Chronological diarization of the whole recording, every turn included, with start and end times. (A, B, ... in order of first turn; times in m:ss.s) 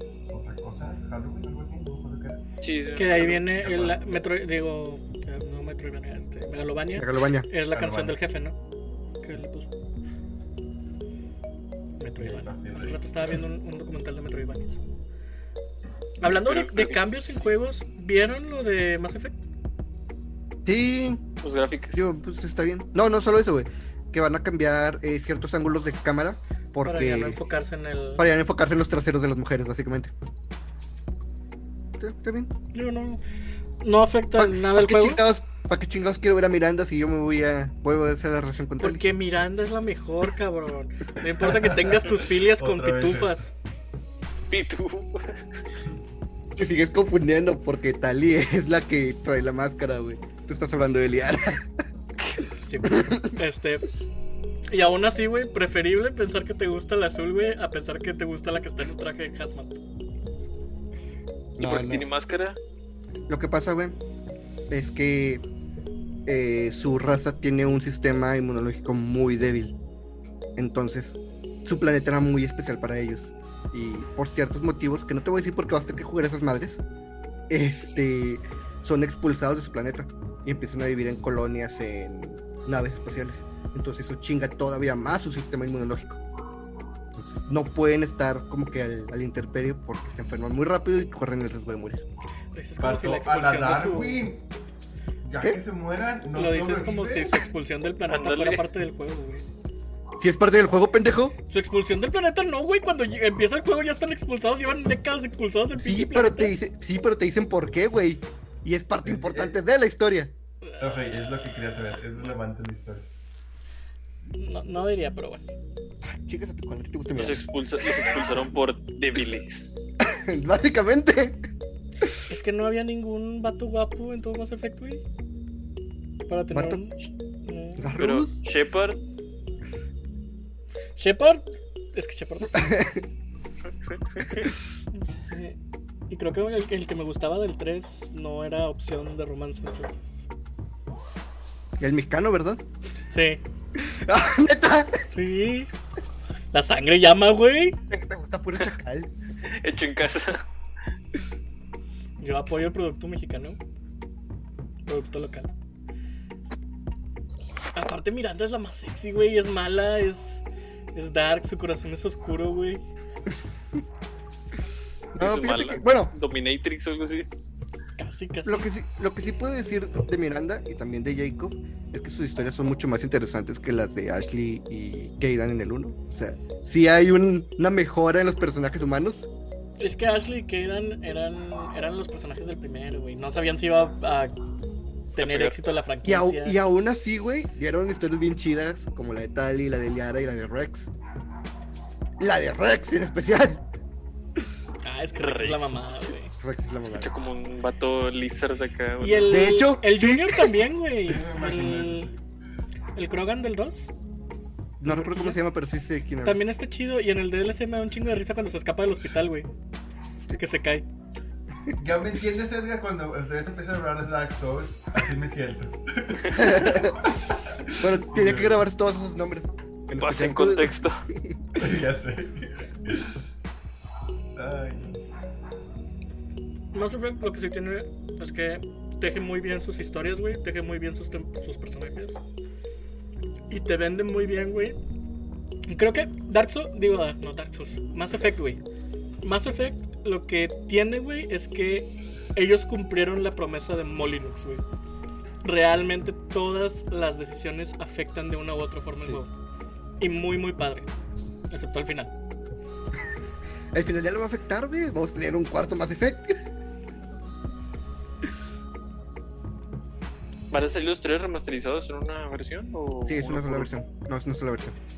0:00.3-0:02.4 A
0:02.6-0:03.7 B
0:03.0-0:08.6 C
0:03.6-0:04.0 A
0:07.0-0:07.5 D
0:07.6-0:08.2 A
0:09.2-0:09.7 C
0:12.0-0:14.8 C
0:12.2-0:13.4 A
0:16.2-0:19.4 C
0:16.3-0:17.0 B
0:20.6-0:21.2 D
0:21.4-0:22.1 B
0:21.9-0:27.4 D
0:26.8-0:28.3 C
0:28.2-0:30.1 D
0:32.0-0:32.5 D
0:32.7-0:33.2 C
0:33.8-0:35.2 C
0:34.4-0:39.1 D
0:38.8-0:43.5 C
0:41.4-0:43.4 A
0:44.5-0:45.4 B
0:46.6-0:51.7 D
0:52.6-0:53.9 C
0:52.8-0:53.3 D
0:54.7-0:59.8 C
1:01.6-1:02.1 D
1:01.6-1:02.6 B
1:03.3-1:04.0 D
1:04.7-1:05.4 D
1:06.3-1:09.8 D
1:10.6-1:16.8 D
1:17.5-1:26.2 D
1:27.1-1:32.0 D
1:32.5-1:34.3 C
1:32.8-1:34.4 A
1:35.2-1:37.4 A
1:36.3-1:39.4 C
1:38.1-1:38.7 B
1:40.2-1:41.4 D
1:41.5-1:46.5 C
1:45.8-1:50.3 D
1:50.8-1:53.1 A
1:54.4-1:55.4 C
1:56.0-1:58.4 D
1:57.1-1:59.9 B
2:00.1-2:01.4 D
2:02.3-2:05.0 C
2:06.3-2:07.9 C
2:06.5-2:06.8 D
2:07.8-2:08.4 D
2:08.0-2:09.0 B
2:11.0-2:12.7 C
2:12.5-2:13.0 D
2:14.2-2:14.4 B
2:14.9-2:15.6 C
2:16.1-2:20.3 C
2:21.8-2:22.6 D
2:23.1-2:23.4 C
2:23.8-2:25.1 D
2:25.1-2:25.7 C
2:26.5-2:27.8 C
2:27.9-2:29.1 D
2:29.5-2:30.4 B
2:32.2-2:33.6 C
2:34.9-2:35.5 C
2:37.7-2:40.4 C
2:40.9-2:42.8 C
2:45.2-2:47.3 B
2:45.2-2:46.1 D
2:48.0-2:48.7 C
2:48.4-2:59.3 D
2:59.8-3:04.3 C
3:05.2-3:05.6 B
3:05.2-3:06.6 C
3:06.0-3:10.9 D
3:12.2-3:13.6 D
3:14.8-3:16.3 C
3:15.2-3:16.1 B
3:16.4-3:17.1 D
3:16.9-3:19.5 B
3:19.0-3:22.1 C
3:19.3-3:20.5 D
3:21.0-3:22.2 A
3:23.0-3:23.9 C
3:24.8-3:26.4 D
3:24.8-3:25.4 C
3:26.2-3:29.5 C
3:30.4-3:30.9 C
3:31.8-3:38.6 A
3:36.4-3:37.2 D
3:37.8-3:40.8 D
3:40.0-3:41.0 B
3:41.6-3:43.2 A
3:44.4-3:45.0 A
3:46.7-3:52.2 C
3:53.5-3:54.8 C
3:55.7-3:58.6 C
3:59.2-4:04.6 C
4:05.4-4:09.3 C
4:10.0-4:10.9 C
4:11.5-4:12.1 C
4:13.7-4:16.4 D
4:20.5-4:23.7 B
4:23.1-4:24.8 D